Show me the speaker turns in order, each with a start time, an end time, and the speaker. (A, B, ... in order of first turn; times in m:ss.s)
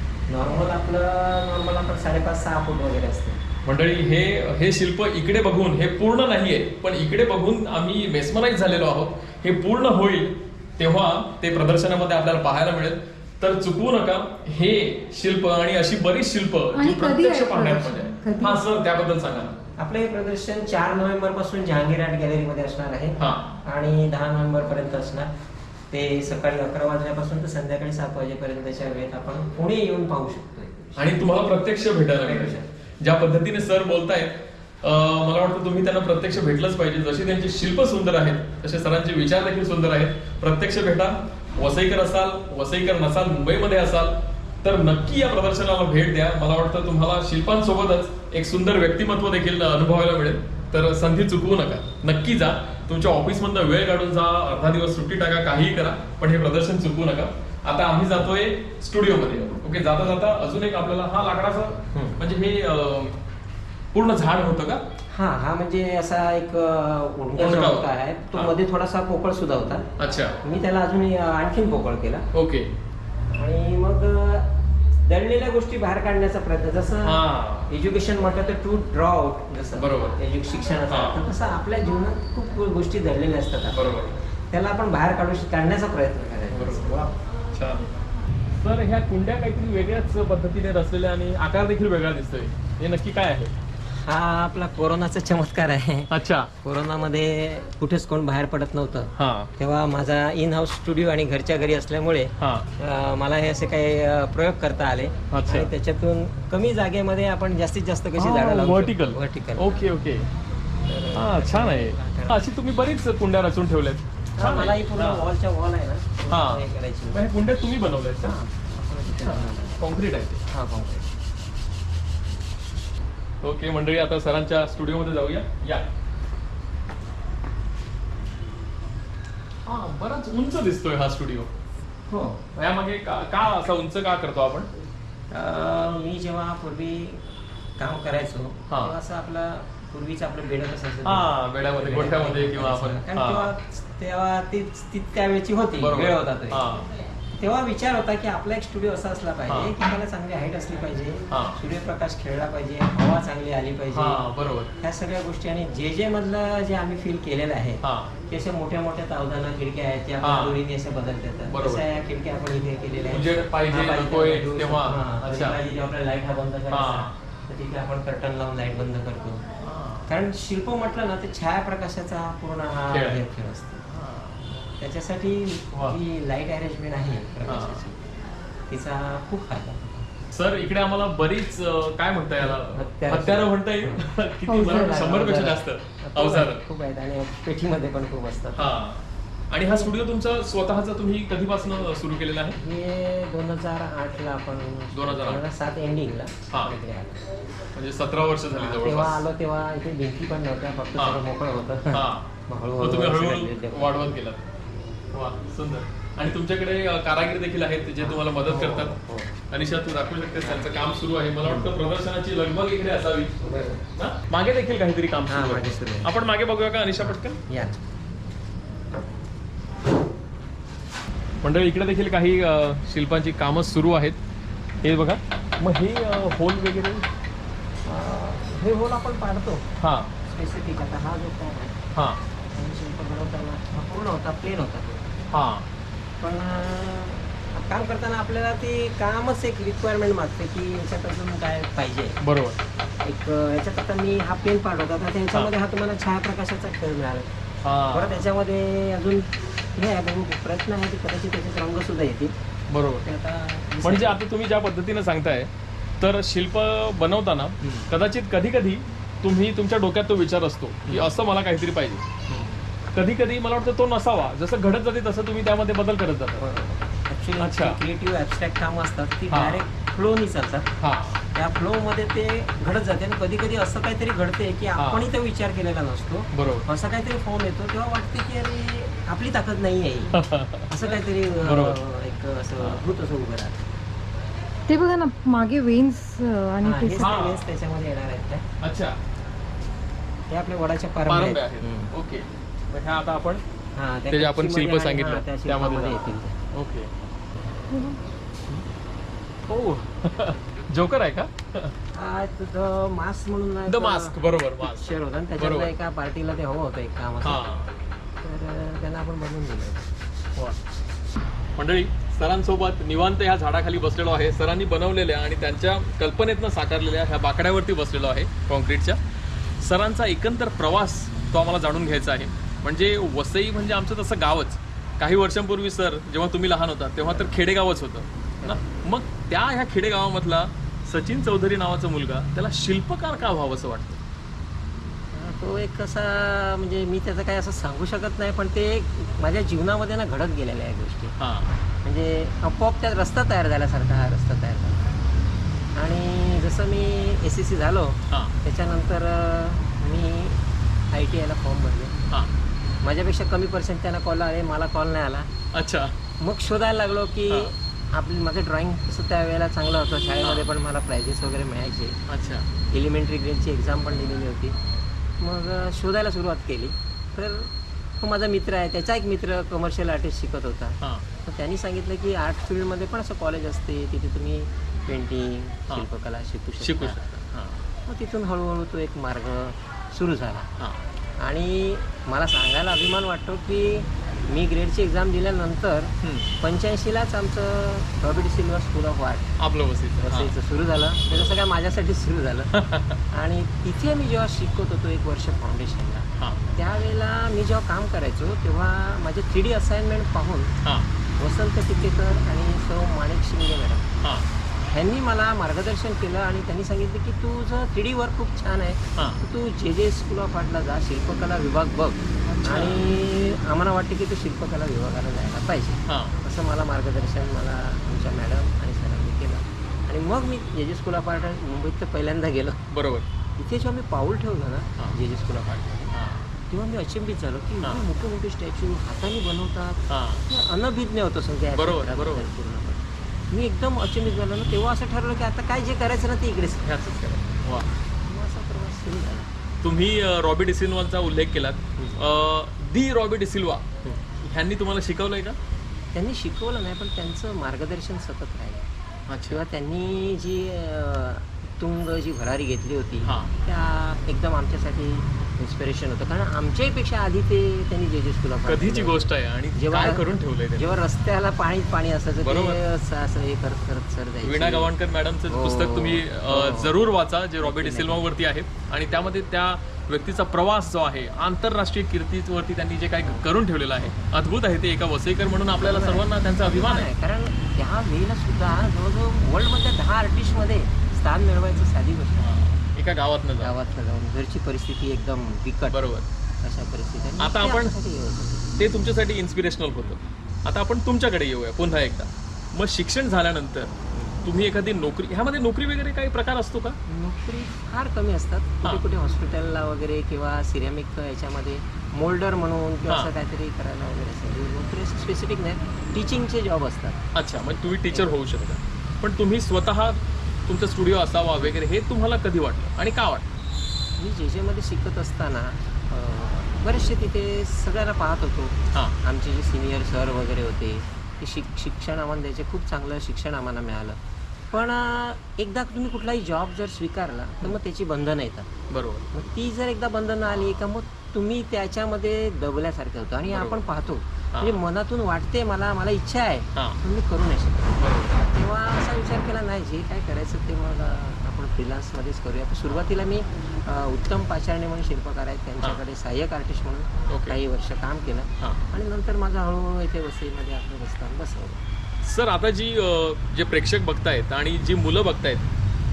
0:00.3-0:03.4 A
0:03.6-0:19.6 B
0:16.7-0:18.6 C
0:19.8-0:25.3 A
0:23.2-0:23.5 B
0:25.9-0:31.2 A
0:31.0-1:03.2 B
0:32.2-0:32.7 A
1:03.9-1:04.8 B
1:05.1-1:09.9 A
1:07.4-1:08.5 B
1:10.0-1:10.4 B
1:10.4-1:12.2 A
1:12.3-1:12.7 B
1:13.3-1:27.1 A
1:17.0-1:17.7 B
1:19.8-1:20.2 B
1:20.9-1:21.3 B
1:23.7-1:24.2 B
1:26.5-1:27.8 B
1:28.6-1:33.5 B
1:33.9-1:49.9 A
1:36.1-1:36.5 B
1:39.2-1:39.5 B
1:42.4-1:42.7 B
1:45.3-1:45.7 B
1:48.2-1:50.3 B
1:50.8-1:52.4 A
1:51.1-1:55.3 B
1:54.4-1:57.2 A
1:56.3-1:58.4 B
1:58.2-1:59.8 A
1:59.1-2:00.4 B
2:00.5-2:01.1 A
2:03.4-2:05.8 B
2:09.6-2:11.5 B
2:12.1-2:12.4 A
2:12.5-2:14.7 B
2:15.3-2:26.7 A
2:18.7-2:18.9 B
2:21.0-2:23.5 B
2:25.8-2:26.9 B
2:27.4-2:34.2 A
2:31.3-2:31.6 B
2:33.9-2:34.7 B
2:34.8-2:49.4 A
2:37.8-2:38.1 B
2:40.2-2:40.6 B
2:41.5-2:41.9 B
2:43.1-2:45.6 B
2:46.7-2:47.1 B
2:49.6-2:50.1 B
2:50.1-2:53.8 A
2:52.9-2:53.2 B
2:53.8-2:54.6 B
2:54.7-2:58.1 A
2:55.7-2:56.0 B
2:57.5-2:57.8 B
2:58.7-3:00.1 A
3:00.3-3:06.6 B
3:02.4-3:08.7 A
3:04.5-3:05.0 C
3:08.6-3:12.6 B
3:12.6-3:17.3 A
3:14.9-3:15.4 B
3:16.5-3:16.8 B
3:17.7-3:19.2 B
3:18.5-3:24.2 A
3:21.9-3:24.5 B
3:25.1-3:33.4 B
3:28.0-3:29.3 A
3:30.4-3:30.7 A
3:33.4-3:33.8 A
3:33.9-3:37.4 B
3:35.3-3:36.1 A
3:37.5-3:37.8 A
3:41.4-3:44.2 B
3:44.8-3:47.0 B
3:47.8-3:49.7 A
3:49.8-3:50.1 B
3:50.2-3:51.8 A
3:51.9-3:52.2 B
3:52.5-3:55.2 A
3:55.3-3:55.7 B
3:56.2-4:02.2 A
4:02.2-4:02.6 B
4:03.0-4:07.3 A
4:07.6-4:08.2 B
4:07.9-4:12.3 A
4:12.7-4:13.1 B
4:13.0-4:14.2 A
4:13.8-4:22.2 B
4:20.9-4:21.1 A
4:22.9-4:26.4 B
4:26.4-4:30.7 A
4:27.4-4:27.8 B
4:29.3-4:29.6 B
4:30.8-4:31.2 B
4:31.3-4:43.7 A
4:34.8-4:35.0 B
4:36.3-4:36.6 B
4:40.1-4:41.8 B
4:44.7-4:47.1 C
4:46.6-4:48.4 A
4:47.0-4:47.4 B
4:48.6-4:49.0 B
4:50.3-4:51.9 A
4:51.0-4:53.4 B
4:53.8-4:56.4 A
4:54.1-4:56.9 B
4:57.7-4:58.0 C
4:59.5-5:01.7 B
5:01.9-5:07.5 A
5:03.7-5:05.7 B
5:07.2-5:07.7 B
5:08.2-5:09.9 A
5:11.6-5:19.0 B
5:19.6-5:34.0 B
5:27.1-5:27.4 A
5:35.1-5:41.2 A
5:41.2-5:41.5 B
5:41.8-5:45.0 A
5:45.8-5:52.0 A
5:52.8-5:55.3 A
5:55.5-5:55.9 B
5:56.2-6:02.0 A
6:02.1-6:02.5 B
6:02.7-6:04.6 A
6:05.2-6:17.1 A
6:16.6-6:17.7 B
6:17.8-6:20.5 A
6:20.6-6:20.8 B
6:21.2-6:29.4 A
6:26.0-6:26.3 B
6:29.4-6:30.3 B
6:30.0-6:32.5 A
6:32.5-6:33.0 B
6:33.1-6:40.5 A
6:36.2-6:36.5 B
6:41.2-6:44.0 A
6:44.0-6:44.3 B
6:44.7-7:02.6 A
6:49.0-6:49.2 B
6:52.2-6:52.8 B
6:55.9-6:56.1 B
7:02.7-7:03.0 B
7:03.4-7:05.9 A
7:05.9-7:06.3 B
7:06.5-7:17.3 A
7:09.9-7:10.2 B
7:11.5-7:12.3 B
7:17.4-7:17.7 B
7:18.0-7:19.3 A
7:19.6-7:23.7 B
7:21.8-7:22.0 A
7:24.2-7:25.4 B
7:25.9-7:28.6 A
7:29.1-7:29.4 B
7:29.3-7:44.7 A
7:33.0-7:33.3 B
7:38.4-7:40.8 B
7:42.2-7:42.6 B
7:44.2-7:56.9 B
7:45.3-7:46.8 A
7:47.4-7:48.1 A
7:55.6-8:02.3 A
8:02.2-8:03.6 B
8:03.4-8:05.8 A
8:05.7-8:06.1 B
8:06.4-8:08.6 A
8:07.2-8:07.7 B
8:08.6-8:16.8 B
8:13.9-8:14.2 A
8:16.8-8:27.0 A
8:27.1-8:33.2 B
8:34.0-8:44.0 A
8:44.5-8:48.5 A
8:48.7-8:49.1 B
8:49.1-9:11.6 A
8:53.2-8:53.6 B
8:54.3-8:54.6 B
8:56.5-8:56.8 B
8:57.8-8:58.1 B
9:07.1-9:07.4 B
9:12.0-9:15.5 B